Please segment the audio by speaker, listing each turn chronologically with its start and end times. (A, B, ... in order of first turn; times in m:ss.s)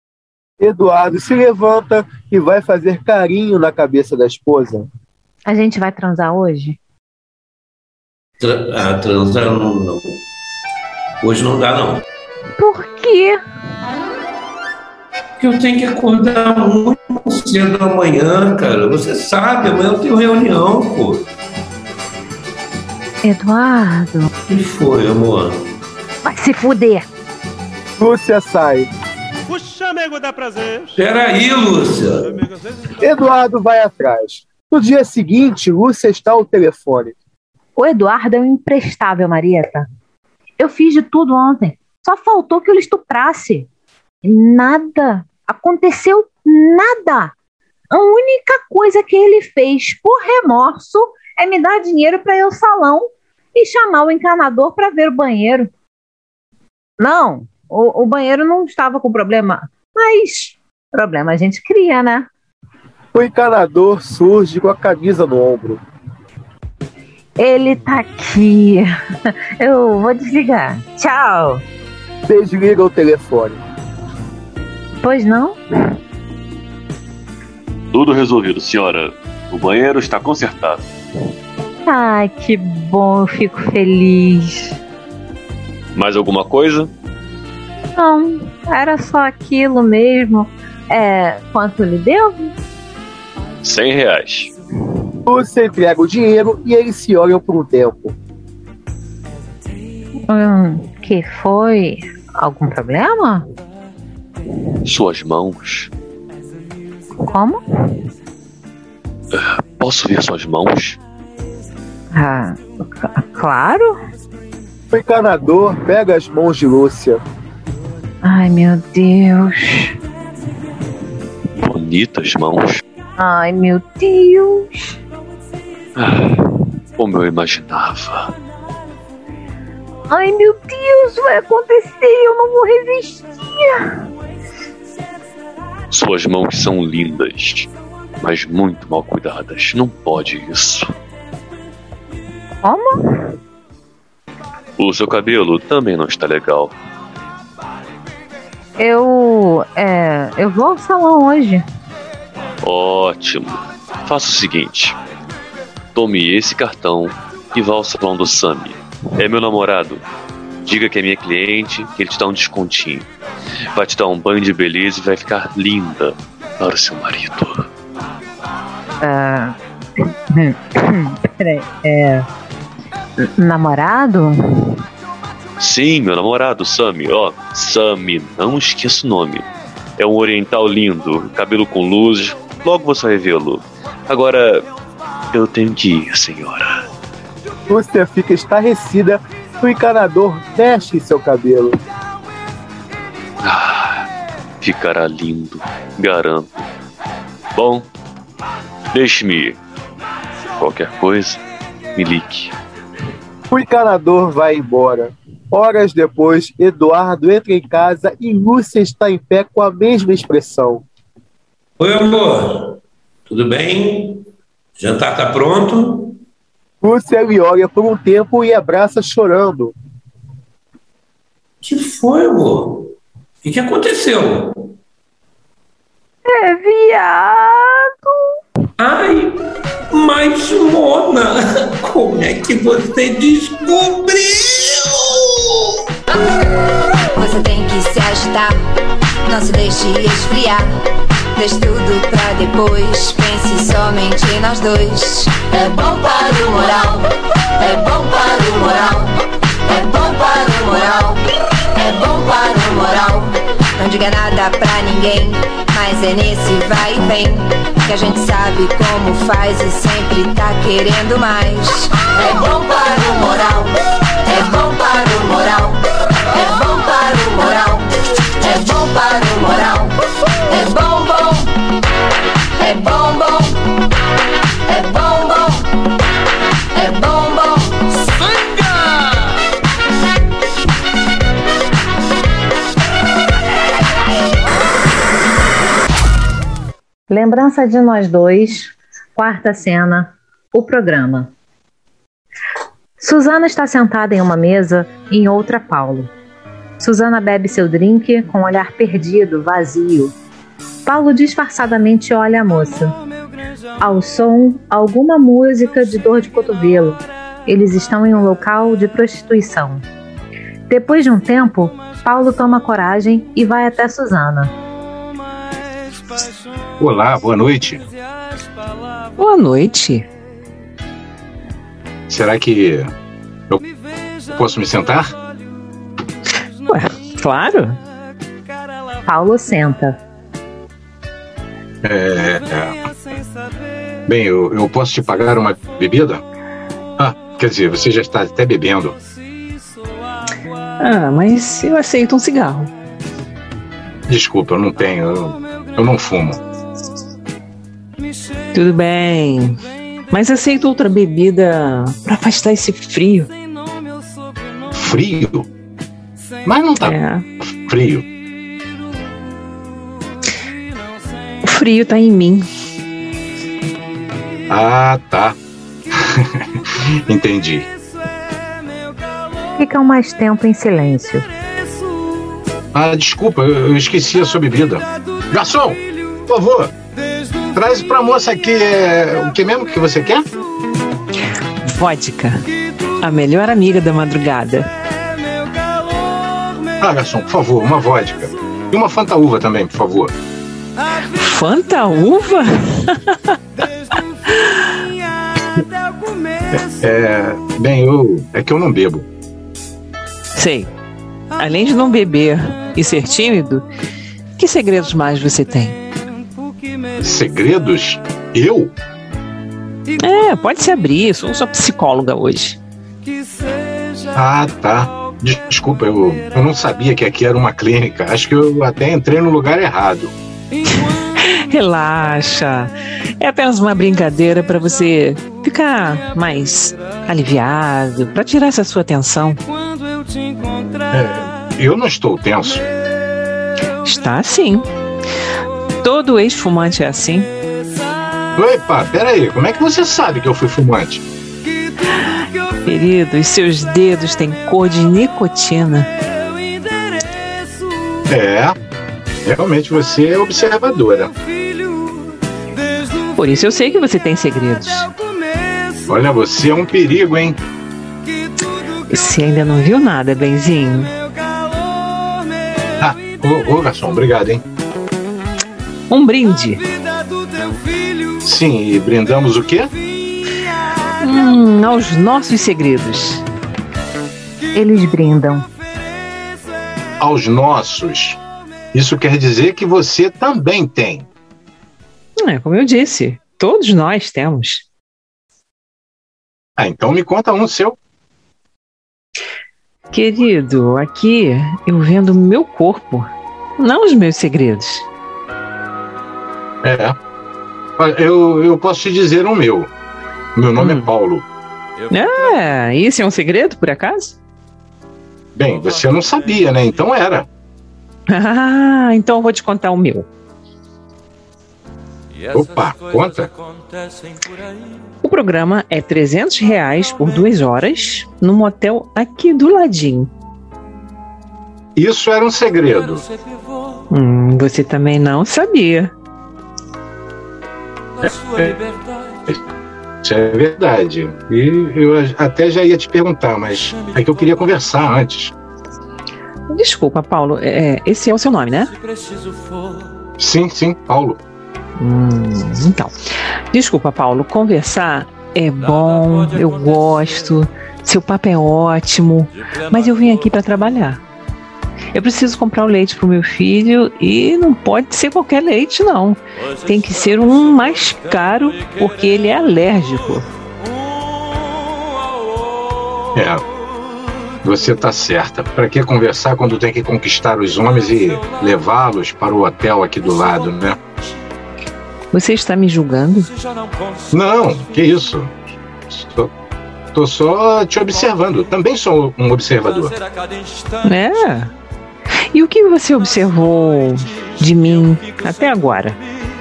0:00.6-0:04.9 A
0:05.4-0:06.8 B
0:08.4-0:10.2 C
0:11.2-0:12.0 C
0:12.6-0:13.4 B
0:15.4-0:21.3 C
0:23.2-0:24.3 B
0:24.5-0:25.7 C
0:26.2-0:27.1 B
0:28.0-0:28.9 A
0:30.9-0:32.4 C
0:33.0-0:37.1 A
0:37.8-0:39.9 B
0:40.6-0:43.7 B
0:44.2-0:47.3 B
0:47.9-0:55.7 B
0:57.0-1:02.3 B
1:03.1-1:05.8 A
1:07.4-1:09.0 B
1:09.6-1:11.6 B
1:12.3-1:13.6 A
1:15.0-1:15.6 B
1:17.9-1:20.9 D
1:21.8-1:24.8 B
1:25.9-1:26.9 D
1:27.9-1:32.5 B
1:33.6-1:34.5 D
1:35.2-1:38.1 A
1:40.3-1:43.5 B
1:44.8-1:45.9 D
1:47.2-1:47.9 B
1:49.3-1:51.0 D
1:52.1-1:54.0 B
1:54.9-1:57.2 A
1:58.2-2:00.0 B
2:01.6-2:02.8 D
2:03.2-2:05.0 B
2:06.0-2:06.5 D
2:07.0-2:08.3 D
2:10.1-2:14.0 B
2:15.9-2:17.7 D
2:18.2-2:20.9 D
2:22.6-2:23.3 B
2:24.8-2:26.7 D
2:28.8-2:31.6 B
2:32.6-2:35.0 D
2:35.9-2:40.0 D
2:40.6-2:43.1 D
2:43.7-2:47.7 D
2:49.0-2:52.3 B
2:53.2-2:54.8 B
2:55.6-2:59.4 D
3:00.0-3:04.7 D
3:05.3-3:06.8 D
3:07.7-3:11.8 A
3:13.4-3:14.1 D
3:14.6-3:16.6 D
3:17.5-3:17.9 D
3:18.9-3:19.6 D
3:20.6-3:21.4 D
3:21.9-3:22.5 D
3:23.5-3:30.8 A
3:31.8-3:34.2 C
3:34.8-3:36.2 C
3:36.8-3:39.7 A
3:41.6-3:44.7 C
3:46.2-3:48.1 B
3:48.8-3:49.4 C
3:49.9-3:55.7 C
3:57.1-3:58.6 E
3:59.2-4:00.7 E
4:01.3-4:11.2 E
4:11.8-4:27.9 E
4:28.4-4:29.9 E
4:30.5-4:31.5 E
4:32.6-4:33.6 E
4:34.7-4:35.7 E
4:36.7-4:37.8 E
4:47.1-4:51.3 B
4:53.0-4:56.1 B
4:56.8-5:00.1 B
5:00.8-5:03.0 B
5:03.8-5:09.8 B
5:10.7-5:14.5 B
5:16.8-5:17.8 F
5:19.2-5:20.1 G
5:22.1-5:22.9 F
5:24.3-5:25.1 F
5:26.7-5:27.8 G
5:29.0-5:30.0 B
5:31.8-5:32.7 F
5:34.1-5:36.2 F
5:37.0-5:39.0 F
5:40.8-5:42.7 G
5:44.1-5:46.4 F
5:48.5-5:49.6 G
5:50.1-5:53.3 G
5:54.7-5:55.5 F
5:56.4-5:57.0 F
5:56.8-5:57.2 G
5:57.6-5:58.0 F
6:01.4-6:02.4 G
6:04.5-6:05.4 F
6:05.9-6:06.4 F
6:07.1-6:07.7 F
6:09.6-6:11.3 B
6:12.7-6:16.7 F
6:17.5-6:20.2 F
6:21.6-6:22.4 G
6:23.0-6:24.7 G
6:26.8-6:30.1 F
6:31.1-6:33.1 G
6:36.5-6:39.0 F
6:40.3-6:40.7 G
6:41.4-6:43.6 G
6:44.4-6:45.8 G
6:47.0-6:48.7 F
6:50.0-6:52.6 G
6:54.1-7:00.1 F
7:01.2-7:09.4 G
7:10.9-7:12.6 F
7:13.8-7:14.6 G
7:15.8-7:17.3 G
7:18.4-7:21.0 F
7:22.6-7:25.9 G
7:28.1-7:28.6 F
7:29.2-7:31.1 F
7:33.1-7:34.9 G
7:35.9-7:37.4 F
7:38.9-7:40.9 G
7:42.8-7:44.4 F
7:45.9-7:46.6 G
7:48.2-7:49.7 F
7:51.0-7:53.2 G
7:54.5-7:55.5 B
7:57.0-7:58.2 F
7:58.7-8:01.1 F
8:02.2-8:04.6 G
8:06.6-8:07.8 F
8:09.9-8:14.8 G
8:16.6-8:17.0 F
8:17.8-8:19.7 F
8:20.3-8:21.2 F
8:20.6-8:20.9 G
8:21.9-8:24.2 G
8:25.4-8:27.3 F
8:28.1-8:30.1 G
8:32.3-8:33.3 F
8:35.0-8:40.1 G
8:41.8-8:43.0 F
8:43.9-8:45.9 G
8:48.0-8:48.6 F
8:50.0-8:55.3 F
8:56.5-8:58.7 G
9:00.2-9:01.2 F
9:01.8-9:02.9 G
9:03.5-9:11.0 G
9:11.9-9:20.3 G
9:23.1-9:23.4 F
9:24.4-9:30.8 F
9:32.1-9:33.3 G
9:34.1-9:36.3 F
9:36.9-9:40.0 F
9:40.8-9:41.5 G
9:42.3-9:46.0 G